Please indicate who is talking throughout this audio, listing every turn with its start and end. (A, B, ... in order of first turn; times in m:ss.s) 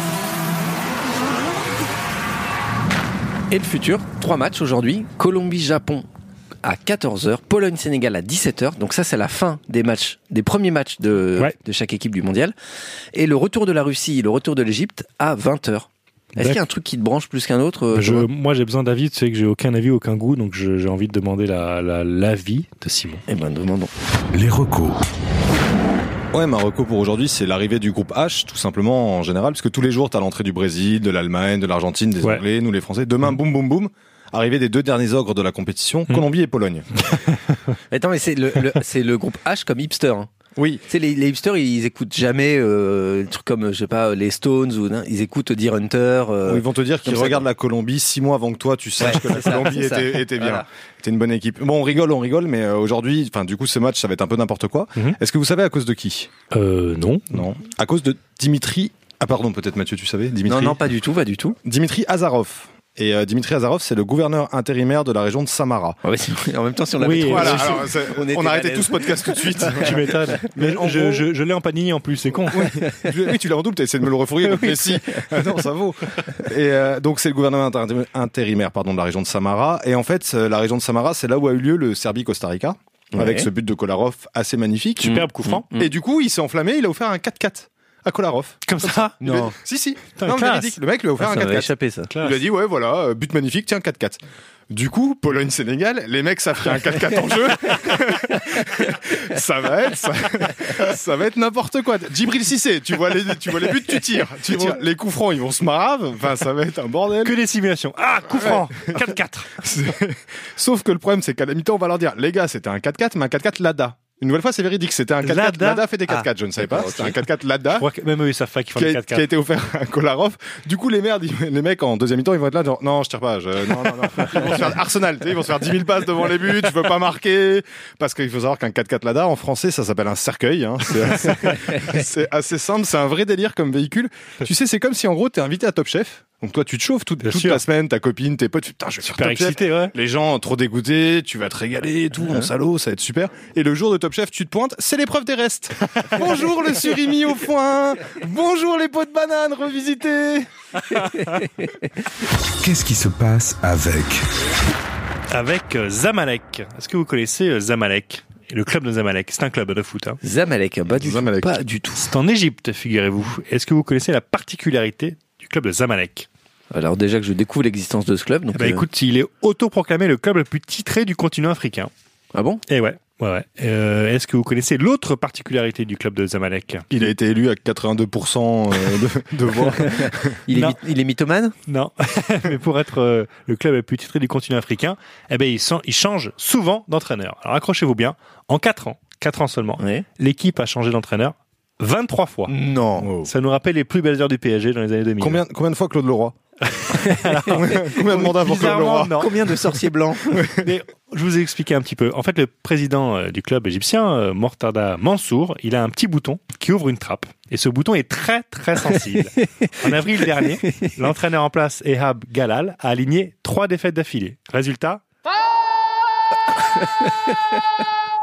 0:03.5-0:06.1 A
0:06.6-0:12.6 A
0:13.1-0:18.3 A
0:16.4-0:16.6 B
0:17.9-0:23.2 B
0:23.3-0:23.9 A
0:24.3-0:25.0 C
0:26.3-0:37.0 D
0:37.9-0:40.3 A
0:40.6-0:40.8 D
0:40.9-0:47.5 A
0:46.4-0:56.3 D
0:49.0-0:50.7 A
0:56.5-0:57.4 B
0:57.3-1:00.8 D
1:00.4-1:01.6 A
1:01.6-1:06.0 D
1:06.0-1:10.1 A
1:07.0-1:07.8 B
1:07.3-1:11.3 D
1:09.8-1:12.8 B
1:12.5-1:47.4 D
1:14.4-1:14.9 B
1:23.1-1:23.5 A
1:25.0-1:25.7 B
1:25.4-1:25.9 A
1:28.7-1:29.2 B
1:29.2-1:29.6 A
1:30.2-1:30.8 B
1:31.2-1:32.1 A
1:32.1-1:32.4 B
1:47.2-1:49.5 B
1:48.5-1:49.0 D
1:49.6-1:57.9 D
1:55.2-1:55.8 B
1:56.1-1:57.2 A
1:57.8-1:59.3 B
1:58.8-2:30.5 D
2:17.2-2:17.6 B
2:19.1-2:19.9 B
2:30.9-2:31.7 A
2:32.6-2:34.3 C
2:35.3-2:40.2 B
2:40.2-2:42.0 A
2:40.9-2:41.6 D
2:42.0-2:46.3 B
2:46.7-2:48.8 A
2:48.6-2:51.9 B
2:52.3-2:52.6 A
2:52.7-2:56.8 B
2:56.9-3:00.4 D
2:59.7-3:01.6 A
3:00.5-3:00.8 B
3:01.7-3:12.5 B
3:09.8-3:10.0 A
3:12.5-3:13.1 A
3:13.0-3:13.3 D
3:13.2-3:15.4 B
3:15.2-3:16.4 D
3:16.8-3:19.4 B
3:17.5-3:19.3 D
3:19.2-3:20.5 A
3:20.4-3:20.7 D
3:20.6-3:35.0 B
3:29.4-3:29.7 A
3:30.4-3:30.9 A